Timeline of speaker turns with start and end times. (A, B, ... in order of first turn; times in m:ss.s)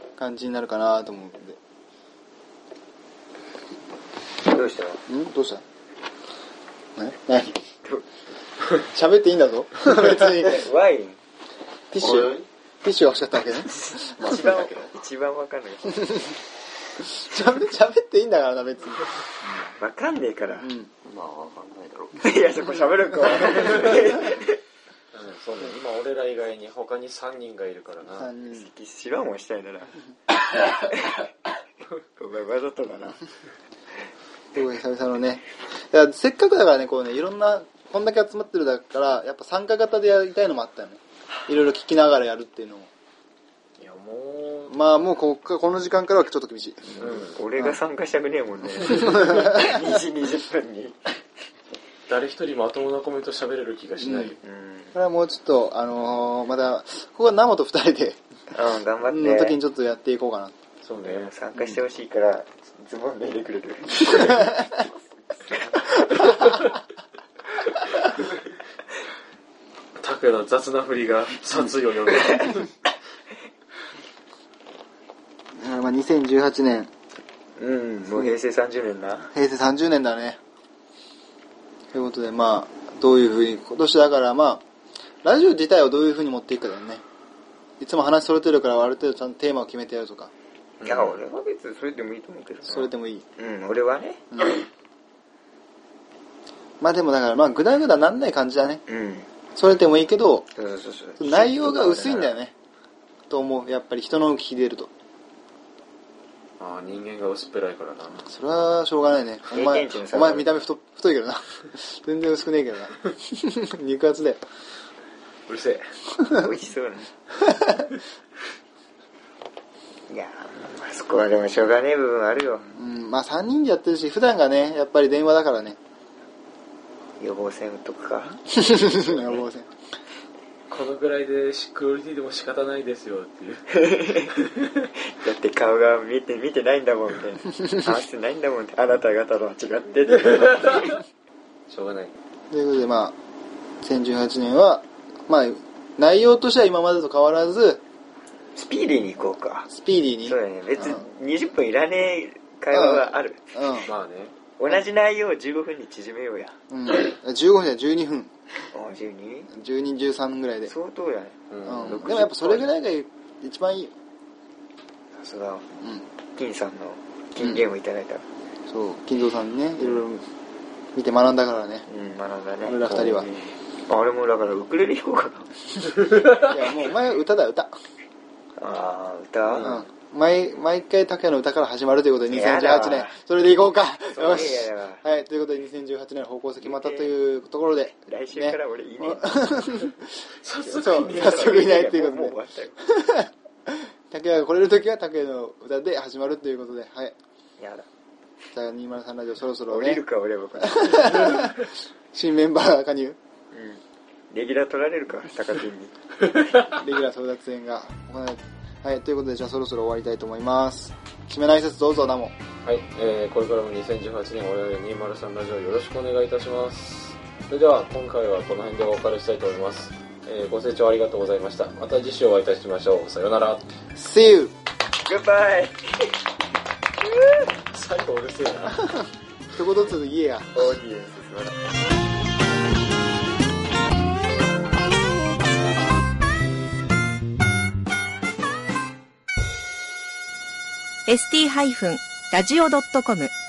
0:00.2-0:01.6 A
0:04.4-0:05.0 B
0:05.1-0:05.6 A
0:07.0-0:07.6 A
0:08.8-0:10.7 A
0:10.0-0:11.2 B
0:11.9-0:14.4 A
0:12.0-0:12.5 C
0:13.8-0:16.3 B
0:14.4-0:14.8 C
0:16.0-0:16.3 A
0:17.0-0:19.1 A
0:19.4-0:20.7 B
0:20.6-0:20.9 A
0:21.0-0:22.6 C
0:22.2-0:24.6 B
0:23.6-0:24.0 C
0:25.1-0:28.3 C
0:28.1-0:28.7 A
0:28.4-0:30.0 B
0:30.6-0:31.3 B
0:32.2-0:33.2 B
0:34.5-0:42.9 A
0:43.8-0:44.8 C
0:44.7-0:47.0 A
0:46.9-0:51.1 B
0:47.0-0:47.4 C
0:49.0-0:49.6 A
0:52.1-0:54.4 C
0:54.0-0:54.3 A
0:54.4-0:55.0 B
0:54.9-0:58.2 A
0:58.5-0:59.6 B
0:59.0-1:00.5 A
1:00.8-1:01.3 C
1:01.0-1:04.6 B
1:04.2-1:04.5 A
1:05.6-1:06.7 C
1:10.0-1:12.7 C
1:15.6-1:16.9 A
1:17.6-1:19.3 B
1:19.3-1:20.4 A
1:21.9-1:24.6 A
1:25.2-1:27.0 A
1:27.8-1:30.3 A
1:30.8-1:31.2 C
1:30.8-1:34.2 B
1:32.7-1:33.3 A
1:36.8-1:38.8 A
1:38.9-1:39.3 B
1:39.5-1:40.5 A
1:40.5-1:42.4 B
1:41.2-1:42.5 A
1:43.3-1:44.9 A
1:46.6-1:48.3 C
1:48.2-1:54.4 A
1:49.5-1:50.6 B
1:55.5-1:55.8 C
1:56.2-1:56.5 A
1:56.3-1:57.1 B
1:57.5-1:57.8 A
2:00.1-2:02.7 B
2:02.7-2:05.8 A
2:07.2-2:09.4 B
2:08.5-2:09.7 A
2:10.7-2:14.8 C
2:13.7-2:14.3 B
2:15.1-2:21.0 B
2:20.1-2:21.0 C
2:21.7-2:22.1 C
2:22.5-2:23.2 A
2:23.8-2:27.8 A
2:28.6-2:29.7 B
2:29.7-2:31.1 A
2:30.2-2:33.6 B
2:32.7-2:33.9 A
2:33.8-2:34.3 C
2:34.5-2:36.5 B
2:36.7-2:38.3 A
2:38.7-2:39.5 B
2:39.5-2:40.7 A
2:40.6-2:42.7 B
2:41.5-2:42.0 C
2:41.6-2:43.9 A
2:45.1-2:45.7 B
2:46.3-2:48.2 B
2:48.7-2:50.3 A
2:50.9-2:51.8 A
2:51.8-2:55.5 B
2:52.6-2:53.3 A
2:56.3-2:57.7 A
2:58.6-2:59.7 B
2:59.5-2:59.8 C
2:59.6-3:10.2 A
3:02.3-3:03.2 B
3:04.1-3:05.0 B
3:06.6-3:07.2 B
3:08.0-3:09.6 B
3:10.4-3:11.9 C
3:10.7-3:17.1 A
3:11.1-3:12.8 B
3:17.6-3:17.9 B
3:18.5-3:20.0 A
3:19.7-3:21.3 B
3:20.6-3:23.2 A
3:23.5-3:25.9 B
3:26.3-3:26.8 C
3:26.6-3:32.3 A
3:32.6-3:43.7 C
3:43.9-3:44.5 A
3:45.0-3:46.1 B
3:47.0-3:47.5 B
3:47.7-3:48.9 C
3:49.5-3:50.6 A
3:50.5-3:51.5 B
4:01.1-4:03.3 D